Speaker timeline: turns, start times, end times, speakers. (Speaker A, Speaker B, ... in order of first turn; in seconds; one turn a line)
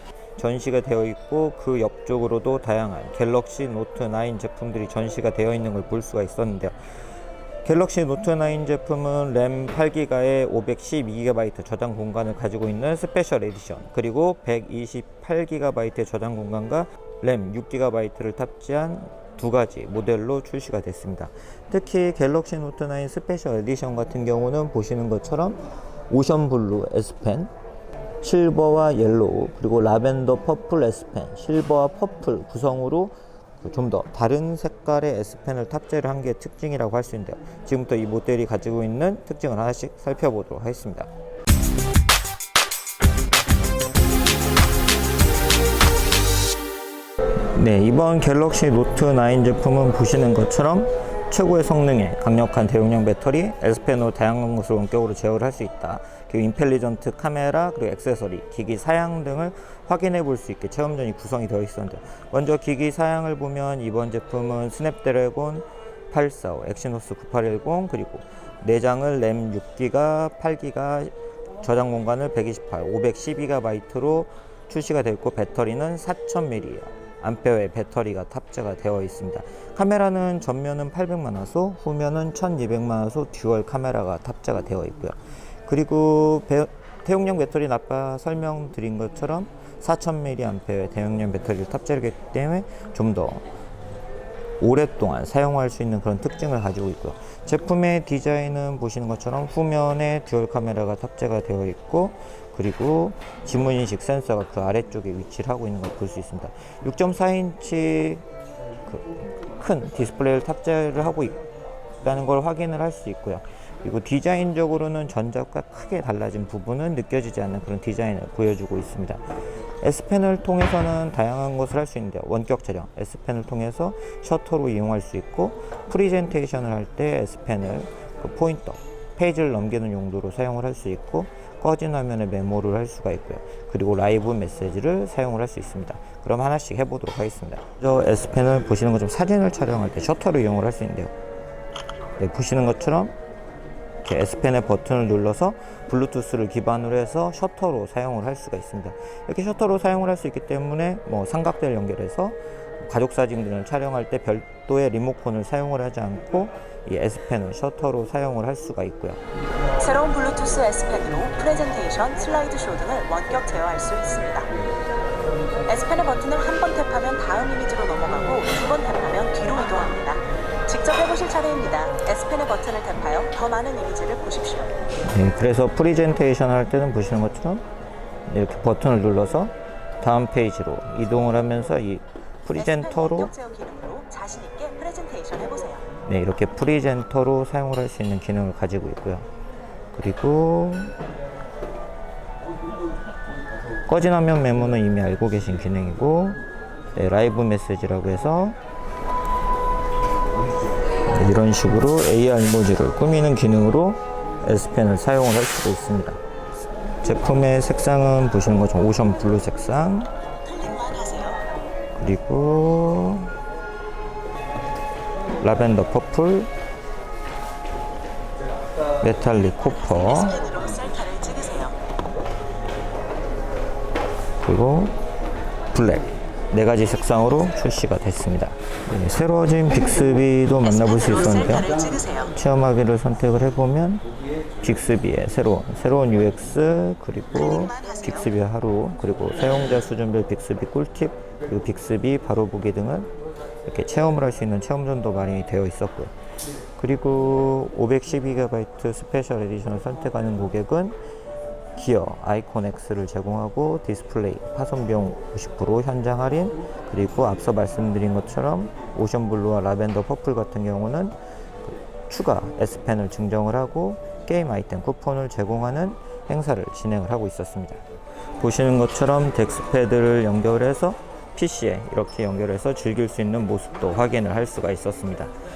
Speaker A: 0.4-6.8
Speaker A: 7.6-27.5
Speaker A: 28.2-41.1
Speaker A: 47.5-93.4
Speaker A: 94.6-108.2
Speaker A: 108.8-111.4
Speaker A: 112.0-119.2
Speaker A: 119.8-141.1
Speaker A: 142.2-143.1
Speaker A: 144.0-159.2
Speaker B: 159.8-164.5
Speaker B: 165.7-174.7
Speaker A: 175.0-177.6
Speaker A: 178.3-183.3
Speaker B: 182.5-185.8
Speaker A: 186.0-189.3
Speaker A: 189.9-190.9
Speaker A: 193.9-196.4
Speaker A: 196.9-198.6
Speaker A: 201.1-206.2
Speaker A: 207.0-210.1
Speaker B: 210.4-211.4
Speaker A: 211.9-213.3
Speaker A: 215.4-216.5
Speaker A: 219.0-220.3
Speaker B: 219.3-221.8
Speaker A: 224.4-225.0
Speaker A: 225.7-231.7
Speaker B: 230.6-232.3
Speaker A: 232.3-234.0
Speaker A: 234.6-243.1
Speaker B: 237.3-238.3
Speaker A: 243.7-246.1
Speaker A: 246.8-251.0
Speaker A: 251.8-261.1
Speaker A: 262.1-267.8
Speaker A: 268.4-275.3